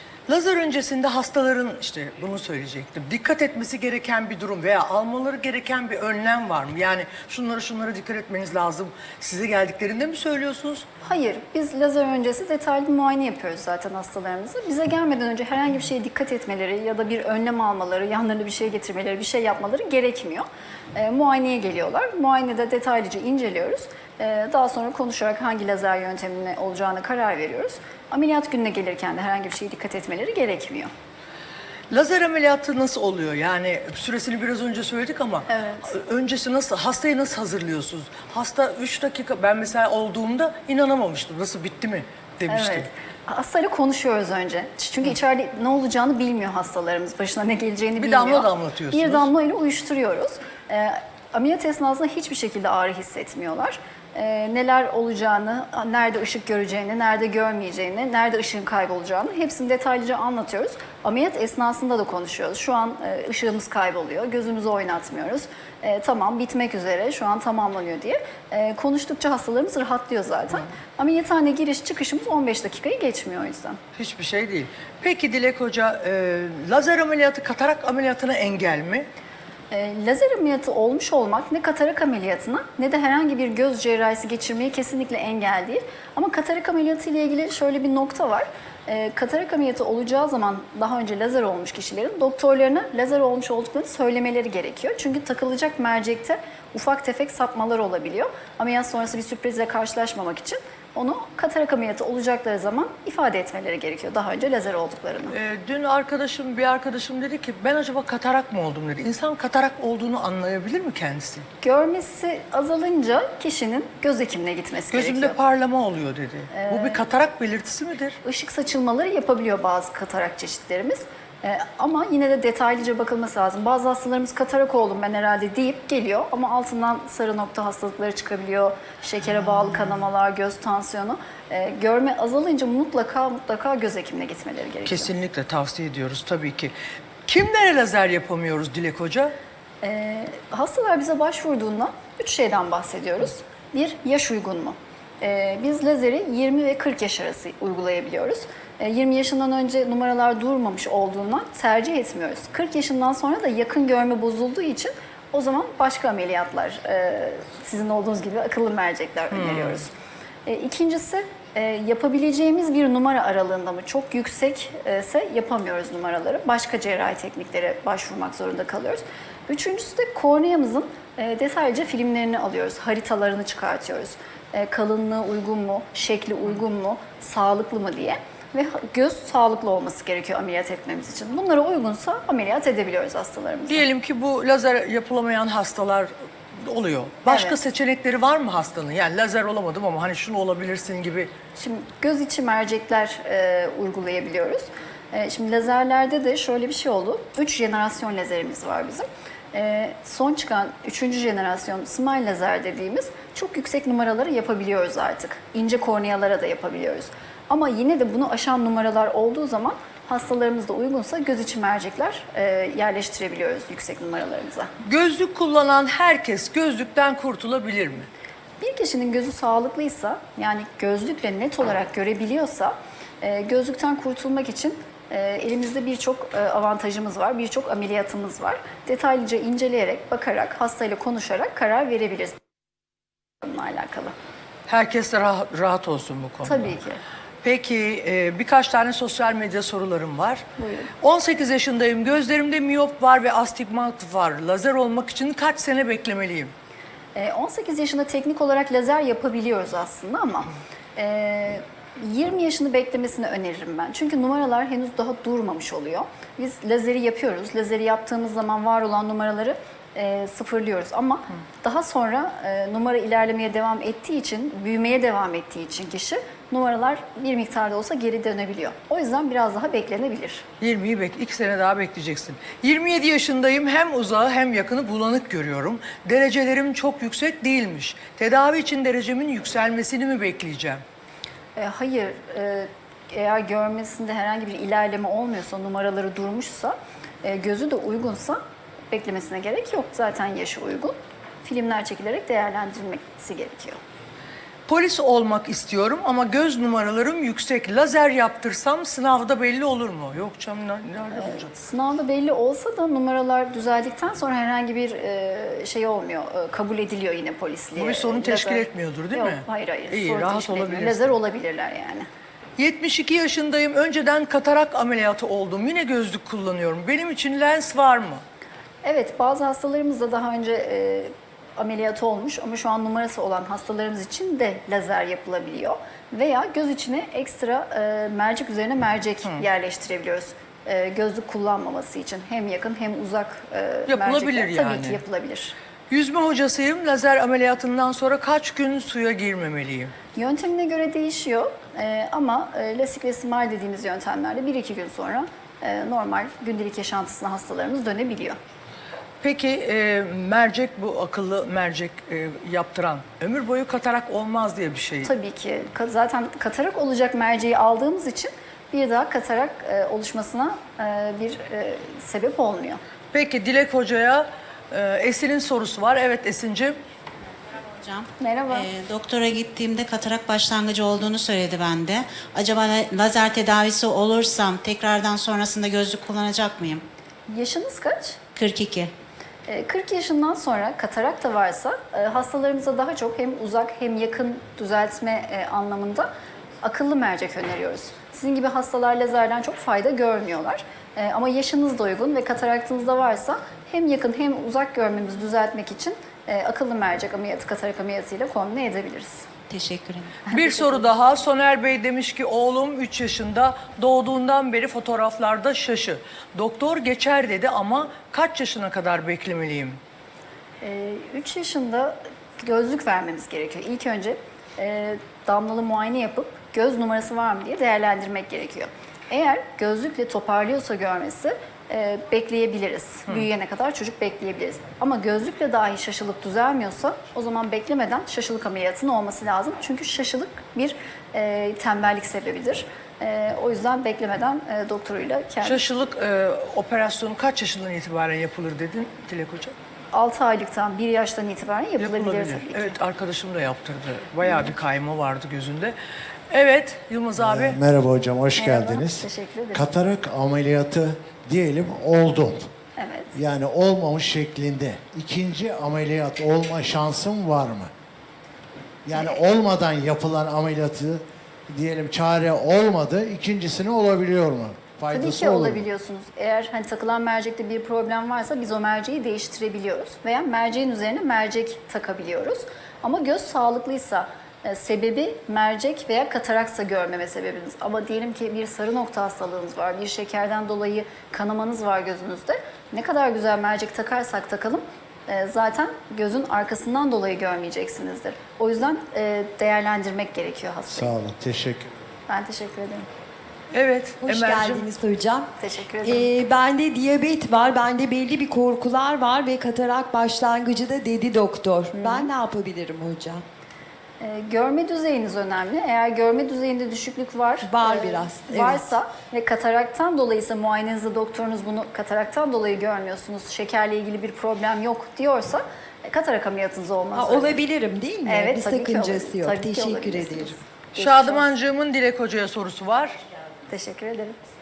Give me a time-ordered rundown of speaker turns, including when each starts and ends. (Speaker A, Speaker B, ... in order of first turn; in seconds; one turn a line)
Speaker A: 0.3-10.8
Speaker B: 11.0-30.9
Speaker A: 31.9-42.9
Speaker B: 35.5-35.9
Speaker B: 42.5-73.8
Speaker A: 48.0-49.3
Speaker A: 74.0-79.1
Speaker B: 79.7-105.3
Speaker A: 105.3-111.5
Speaker B: 111.6-115.4
Speaker A: 114.9-118.2
Speaker B: 116.5-117.1
Speaker B: 118.2-135.1
Speaker A: 134.8-136.7
Speaker A: 137.2-139.3
Speaker B: 139.8-159.9
Speaker A: 159.3-159.8
Speaker B: 160.4-183.8
Speaker A: 183.7-186.1
Speaker A: 186.6-191.3
Speaker B: 187.3-187.6
Speaker B: 191.6-214.7
Speaker A: 214.8-218.1
Speaker B: 218.6-232.4
Speaker B: 233.4-234.1
Speaker A: 234.7-236.7
Speaker B: 236.4-237.0
Speaker A: 237.4-240.4
Speaker B: 240.6-240.9
Speaker A: 241.0-246.5
Speaker B: 247.1-270.4
Speaker A: 270.6-280.8
Speaker B: 281.6-288.4
Speaker B: 288.9-293.8
Speaker A: 294.7-301.5
Speaker B: 301.1-312.1
Speaker A: 307.8-311.1
Speaker A: 312.6-318.2
Speaker B: 318.8-335.5
Speaker A: 333.9-335.0
Speaker A: 335.9-339.9
Speaker B: 340.1-348.4
Speaker A: 349.2-355.1
Speaker B: 355.0-362.8
Speaker A: 363.1-366.8
Speaker C: 367.8-376.8
Speaker B: 368.2-368.7
Speaker B: 377.3-378.2
Speaker C: 378.4-378.9
Speaker B: 379.5-386.1
Speaker B: 386.6-399.3
Speaker C: 399.5-400.1
Speaker A: 400.3-409.8
Speaker B: 400.3-400.8
Speaker B: 410.6-435.6
Speaker A: 435.4-439.5
Speaker B: 439.9-442.7
Speaker A: 441.8-445.7
Speaker A: 446.3-447.6
Speaker D: 447.2-452.5
Speaker B: 448.4-449.7
Speaker B: 452.8-453.1
Speaker D: 453.1-457.7
Speaker D: 458.9-465.6
Speaker B: 458.9-459.2
Speaker B: 464.9-490.9
Speaker D: 490.7-491.7
Speaker B: 492.1-492.9
Speaker A: 493.5-494.6
Speaker E: 494.0-495.3
Speaker B: 495.4-496.1
Speaker E: 495.8-503.2
Speaker B: 501.7-502.1
Speaker B: 504.0-517.4
Speaker E: 507.4-508.6
Speaker E: 516.9-520.3
Speaker B: 518.0-521.3
Speaker A: 520.7-523.0
Speaker B: 523.5-524.2